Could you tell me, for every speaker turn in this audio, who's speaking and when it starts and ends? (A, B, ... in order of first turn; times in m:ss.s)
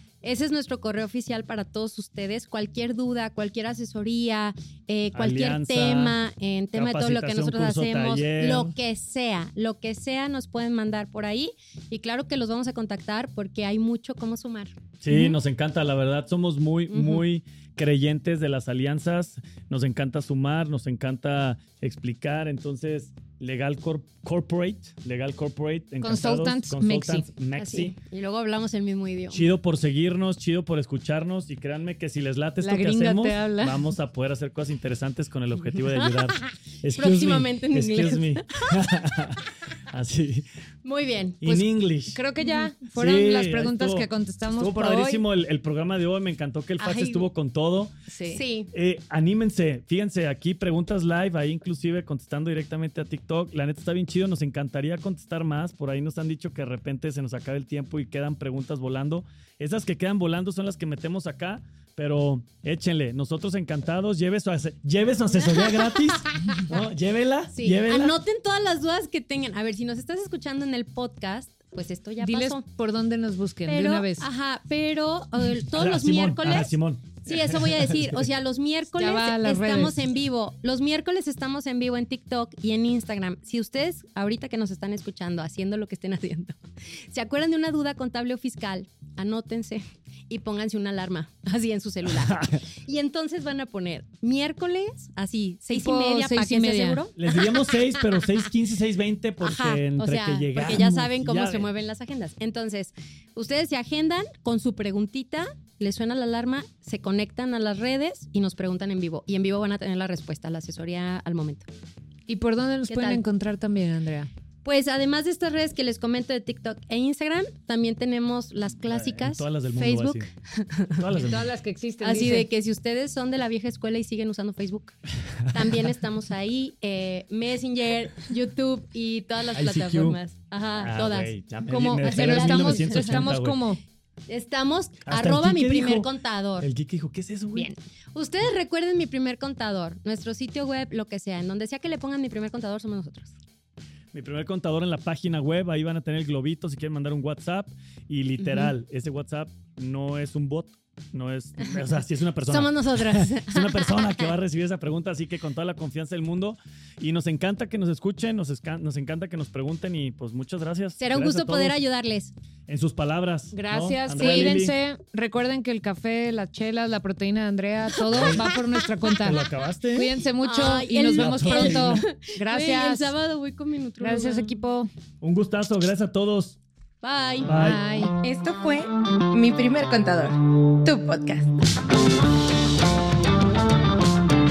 0:00.2-0:14.7 A
0:05.1-0:06.2 B
0:06.7-0:08.7 B
0:15.0-0:27.9 B
0:16.9-0:17.2 A
0:26.0-0:27.3 C
0:27.6-0:29.5 A
0:29.3-0:40.4 B
0:32.6-0:33.9 C
0:35.6-0:39.2 A
0:40.8-0:41.4 A
0:41.4-0:42.2 B
0:41.4-0:45.2 C
0:42.9-0:47.9 B
0:46.8-0:47.3 A
0:48.1-0:48.4 C
0:48.3-0:48.7 A
0:48.7-1:08.2 B
1:05.6-1:06.7 A
1:07.5-1:12.6 A
1:12.2-1:14.3 C
1:13.7-1:26.6 A
1:15.6-1:18.2 B
1:19.0-1:20.1 C
1:27.1-1:38.4 A
1:32.2-1:32.6 B
1:35.7-1:37.0 C
1:37.2-1:41.7 B
1:39.4-1:51.7 A
1:52.3-1:54.3 C
1:52.9-1:53.2 A
1:54.6-2:01.0 A
1:58.9-2:00.3 B
2:01.0-2:01.5 B
2:01.1-2:02.5 C
2:02.0-2:05.0 A
2:05.5-2:11.3 A
2:09.5-2:10.2 B
2:10.8-2:13.6 B
2:11.7-2:13.8 C
2:12.0-2:13.3 A
2:14.3-2:16.7 A
2:15.0-2:16.1 B
2:16.6-2:17.7 B
2:18.1-2:23.3 A
2:24.1-2:41.8 B
2:28.4-2:28.7 A
2:32.4-2:34.2 A
2:41.0-2:42.3 A
2:42.7-2:44.7 B
2:43.5-2:53.1 C
2:44.2-2:44.5 A
2:48.1-2:48.5 B
2:48.1-2:48.9 A
2:49.1-2:50.1 B
2:50.4-2:54.5 A
2:51.1-2:52.0 B
2:54.0-2:54.9 C
2:55.2-2:56.6 B
2:57.0-2:57.5 A
2:57.4-2:57.8 B
2:57.5-2:58.2 C
2:58.2-3:01.5 D